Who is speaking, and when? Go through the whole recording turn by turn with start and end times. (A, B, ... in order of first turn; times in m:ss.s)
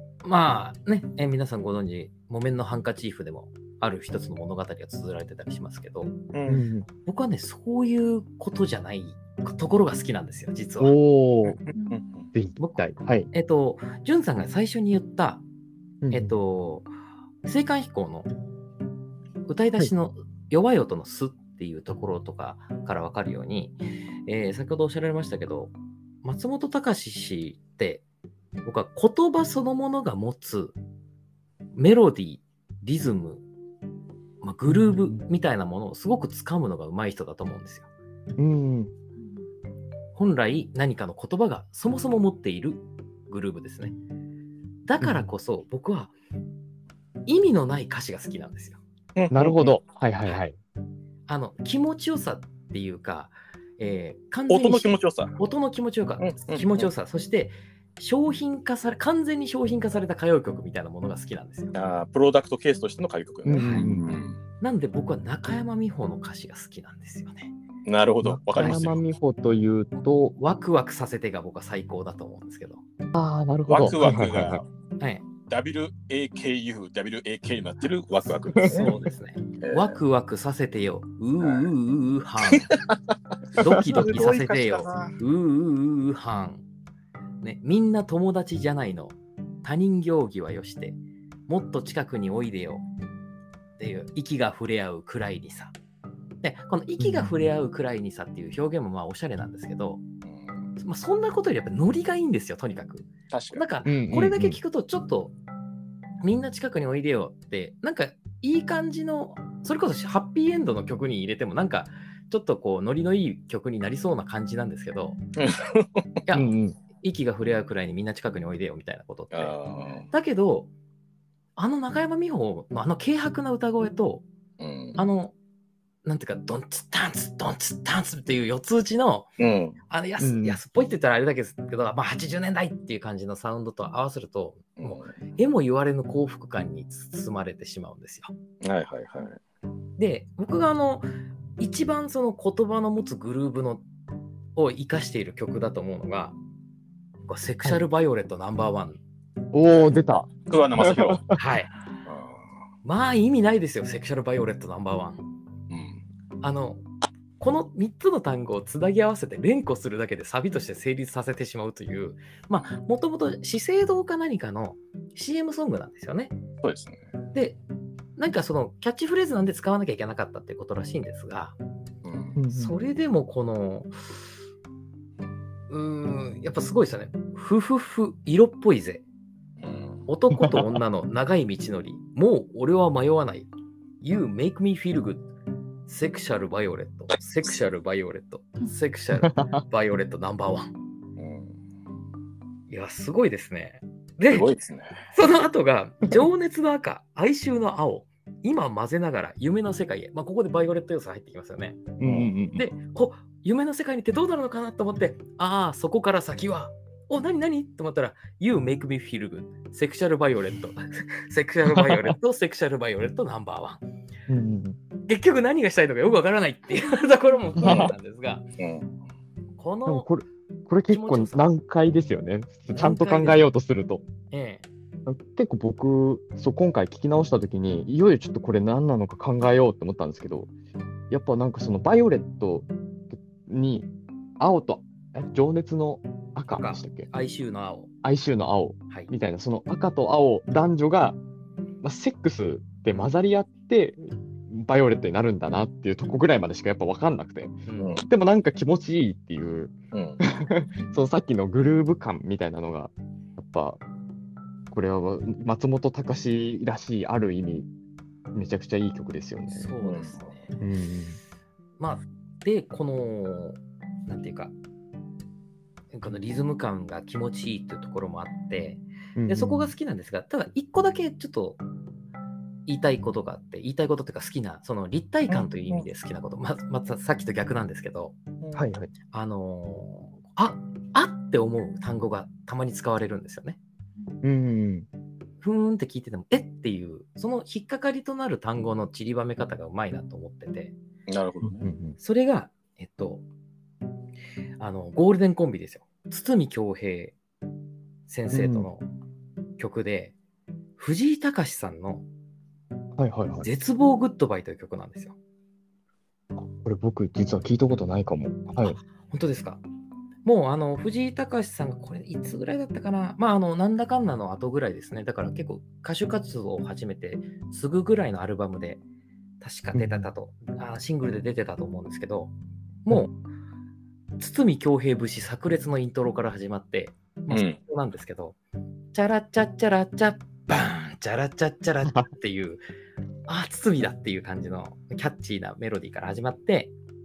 0:00.2-0:06.2 A
0:06.3-0:06.6 B
0:06.4-0:06.9 C
0:07.0-0:10.9 A
0:10.8-0:11.6 C
0:11.7-0:12.3 B
0:12.3-0:13.3 C
0:12.6-0:15.4 A
0:16.0-0:16.4 C
0:16.1-0:16.9 A
0:17.4-0:18.3 A
0:19.5-0:28.0 A
0:28.6-0:30.8 A
0:31.7-0:33.4 A
0:34.4-0:37.9 A
0:34.7-0:35.2 C
0:38.4-0:38.9 C
0:40.1-0:44.0 A
0:44.8-0:46.1 A
0:45.0-0:45.3 C
0:47.2-0:48.8 A
0:49.1-0:49.7 B
0:49.3-0:50.6 C
0:51.3-1:01.7 A
0:54.5-0:55.4 B
0:56.2-0:56.9 B
1:01.7-1:04.4 B
1:03.4-1:04.1 C
1:03.5-1:03.9 A
1:04.6-1:07.5 A
1:07.9-1:09.0 B
1:08.2-1:10.4 C
1:10.4-1:12.8 A
1:13.1-1:14.6 C
1:13.7-1:14.6 B
1:15.0-1:15.2 A
1:15.5-1:19.0 B
1:18.5-1:18.9 C
1:18.6-1:22.7 A
1:19.6-1:20.0 B
1:21.4-1:21.7 B
1:22.6-1:22.9 B
1:23.5-1:25.1 B
1:23.6-1:26.6 A
1:27.4-1:31.0 A
1:31.5-1:32.8 A
1:33.8-1:35.7 A
1:36.4-1:40.0 A
1:37.0-1:37.3 C
1:40.2-1:40.6 B
1:40.8-1:45.4 A
1:43.3-1:43.6 B
1:43.8-1:44.6 C
1:46.2-1:55.2 A
1:55.4-1:56.0 B
1:56.3-1:59.6 A
1:56.3-1:56.8 C
1:59.3-2:00.1 B
2:00.1-2:00.7 A
2:01.6-2:04.2 A
2:04.6-2:05.0 B
2:05.0-2:05.3 A
2:06.0-2:09.3 A
2:09.4-2:09.8 B
2:09.9-2:18.3 A
2:10.2-2:10.6 C
2:14.8-2:15.1 B
2:18.6-2:19.4 B
2:20.0-2:23.8 A
2:24.5-2:26.4 A
2:27.3-2:29.0 A
2:29.5-2:31.2 C
2:30.5-2:31.3 B
2:31.3-2:31.7 A
2:32.0-2:32.4 B
2:32.8-2:35.2 A
2:35.7-2:36.0 B
2:36.4-2:36.8 A
2:37.4-2:46.4 A
2:46.6-2:47.0 B
2:47.3-2:47.6 A
2:48.2-2:51.6 A
2:52.0-2:52.4 B
2:52.4-2:52.8 C
2:52.5-2:54.0 A
2:55.7-2:59.0 A
2:59.6-3:00.1 B
3:00.1-3:03.5 A
3:00.4-3:00.6 C
3:04.0-3:05.3 A
3:05.9-3:10.7 A
3:09.2-3:09.6 C
3:11.2-3:11.6 B
3:12.7-3:14.5 A
3:14.3-3:14.9 B
3:15.1-3:21.9 A
3:22.0-3:22.7 C
3:22.0-3:22.3 B
3:22.6-3:33.8 A
3:31.7-3:32.1 C
3:34.3-3:34.8 C
3:35.1-3:38.4 A
3:37.6-3:37.9 C
3:37.6-3:37.9 B
3:38.6-3:38.9 B
3:39.6-3:40.1 A
3:39.9-3:44.0 C
3:40.9-3:41.5 A
3:42.7-3:43.5 A
3:44.3-3:44.6 A
3:45.0-3:50.5 C
3:51.1-3:53.9 C
3:54.4-3:57.1 C
3:56.5-3:57.9 A
3:58.0-4:01.2 C
4:01.8-4:13.8 C
4:07.7-4:08.0 A
4:07.8-4:08.0 B
4:09.9-4:10.2 B
4:14.7-4:17.7 C
4:18.3-4:19.7 C
4:19.5-4:20.5 A
4:19.8-4:20.3 B
4:20.6-4:21.2 C
4:21.8-4:24.5 A
4:25.9-4:31.6 A
4:29.2-4:29.7 C
4:32.6-4:38.2 A
4:35.3-4:35.8 B
4:38.4-4:38.7 B
4:38.6-4:38.9 C
4:39.1-4:43.6 A
4:44.2-4:44.9 C
4:45.4-4:50.7 A
4:51.1-4:51.7 B
4:51.4-4:52.0 C
4:52.0-4:53.2 A
4:54.6-4:57.2 A
4:58.1-4:58.9 A
4:58.3-4:58.7 C
4:59.6-5:00.1 A
5:00.8-5:02.0 A
5:03.0-5:03.4 C
5:03.4-5:05.2 A
5:06.5-5:08.8 C
5:08.6-5:09.6 A
5:10.2-5:18.8 A
5:19.4-5:22.3 A
5:19.7-5:20.1 C
5:22.9-5:23.1 A
5:24.2-5:28.4 A
5:27.3-5:27.6 B
5:28.9-5:32.6 A
5:33.3-5:36.7 A